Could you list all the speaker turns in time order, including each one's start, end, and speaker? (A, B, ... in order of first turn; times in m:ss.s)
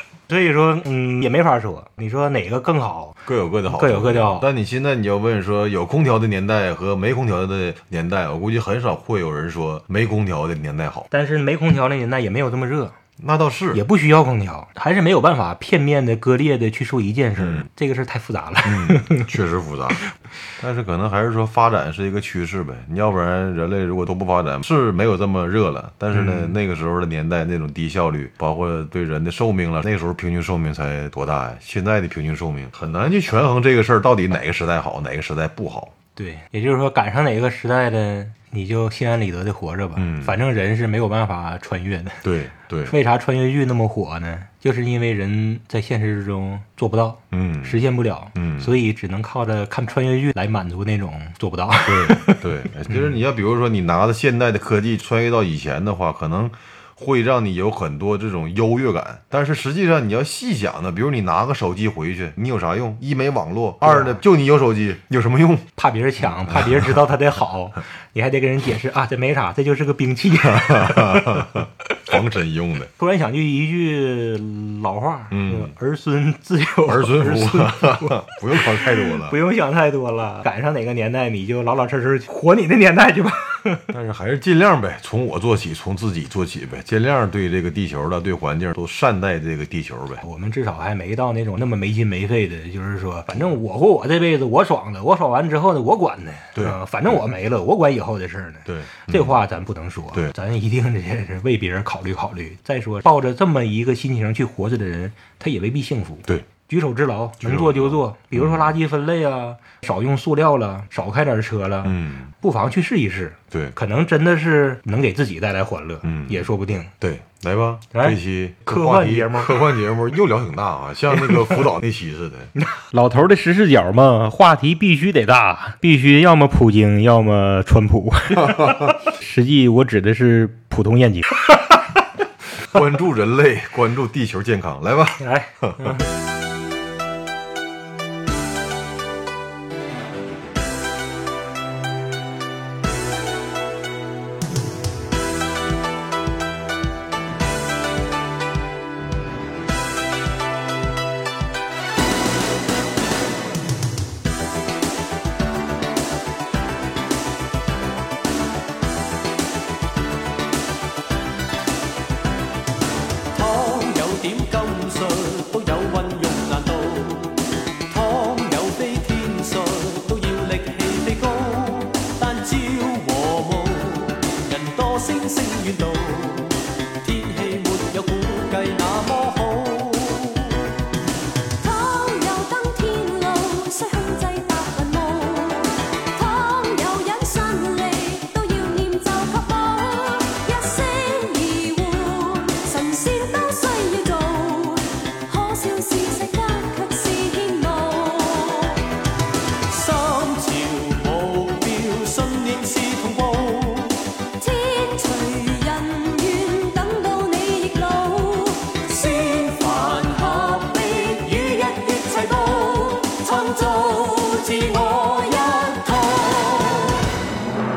0:00.3-0:04.5 A
0:03.3-0:11.1 B
0:11.1-0:13.0 A
0:13.2-0:13.8 B
0:13.7-0:19.3 A
0:17.4-0:17.7 B
0:18.6-0:20.0 B
0:20.6-0:35.9 B
0:26.1-0:26.6 A
0:36.2-0:42.2 A
0:40.0-0:40.4 B
0:42.2-0:42.9 B
0:42.9-0:53.2 A
0:47.3-0:47.8 B
0:48.4-0:48.7 B
0:51.9-1:05.7 B
1:03.8-1:04.2 A
1:05.8-1:11.6 A
1:06.2-1:06.9 B
1:10.4-1:12.9 B
1:13.0-1:23.9 A
1:15.3-1:15.7 B
1:16.8-1:19.4 B
1:23.9-1:30.2 B
1:30.2-1:56.9 A
1:38.6-1:39.4 B
1:47.4-1:48.8 B
1:51.8-1:52.3 B
1:56.0-2:02.5 B
1:57.9-1:59.6 A
2:01.2-2:01.6 A
2:02.6-2:11.7 A
2:08.4-2:08.9 B
2:12.6-2:16.0 B
2:15.2-2:16.1 A
2:43.3-3:00.6 C
3:01.6-3:18.8 D
3:19.7-3:24.0 C
3:24.4-3:29.3 D
3:28.9-3:37.0 C
3:30.4-3:30.7 D
3:33.2-3:35.9 D